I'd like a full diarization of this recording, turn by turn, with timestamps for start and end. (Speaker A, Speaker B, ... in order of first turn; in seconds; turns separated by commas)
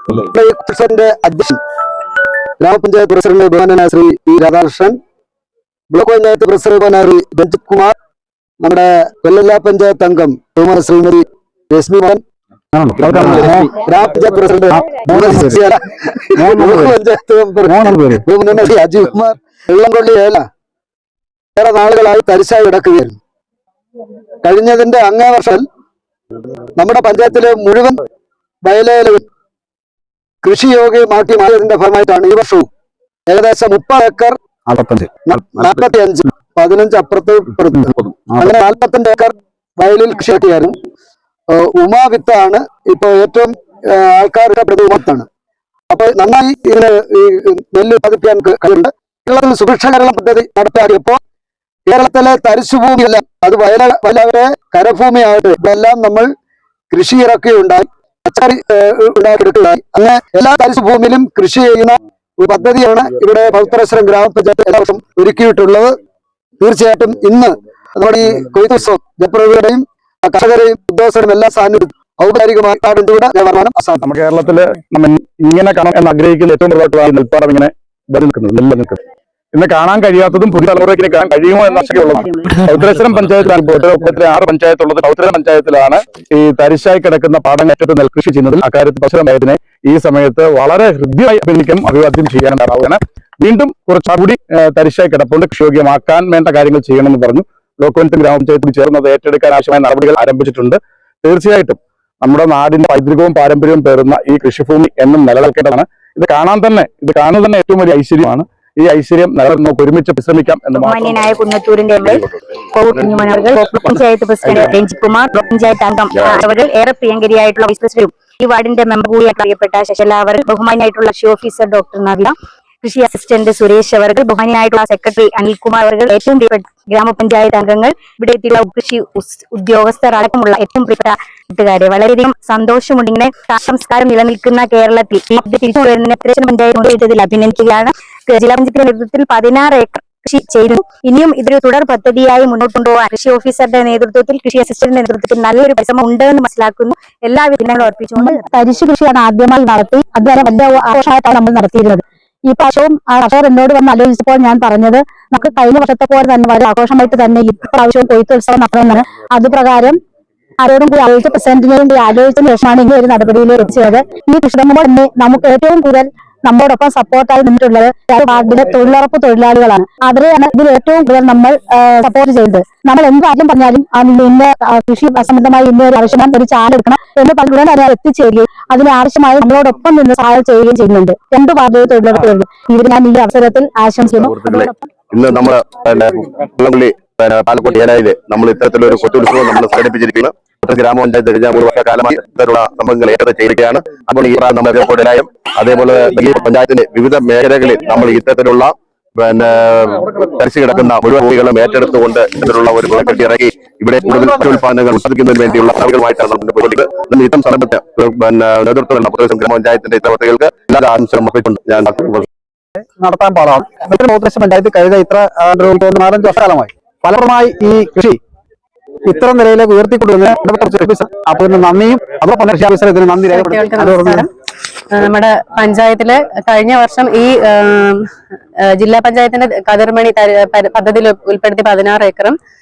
Speaker A: 0.1-1.6, Speaker A: 2.6-5.0, Speaker A: 5.9-7.9, Speaker A: 8.6-12.2, Speaker B: 12.7-13.7, Speaker A: 13.2-20.4, Speaker B: 14.7-15.6, Speaker B: 16.4-16.9, Speaker B: 17.7-18.2, Speaker A: 21.6-23.2, Speaker A: 24.4-25.6, Speaker A: 26.8-28.0, Speaker A: 28.6-29.2, Speaker A: 30.4-32.7, Speaker A: 33.3-34.4, Speaker B: 34.7-35.1, Speaker A: 35.3-40.8, Speaker B: 37.7-38.5, Speaker A: 41.5-45.3, Speaker A: 45.9-51.2, Speaker A: 51.9-56.3, Speaker A: 56.9-65.9, Speaker A: 66.6-74.0, Speaker C: 74.0-79.0, Speaker C: 79.5-111.2, Speaker D: 81.7-82.5, Speaker D: 110.7-148.4, Speaker E: 113.0-113.4, Speaker E: 116.2-116.5, Speaker F: 148.2-160.0, Speaker F: 160.6-184.7, Speaker E: 184.1-212.3, Speaker B: 212.8-218.2, Speaker B: 219.1-224.2, Speaker G: 223.3-224.3, Speaker G: 224.9-228.0, Speaker G: 228.8-232.4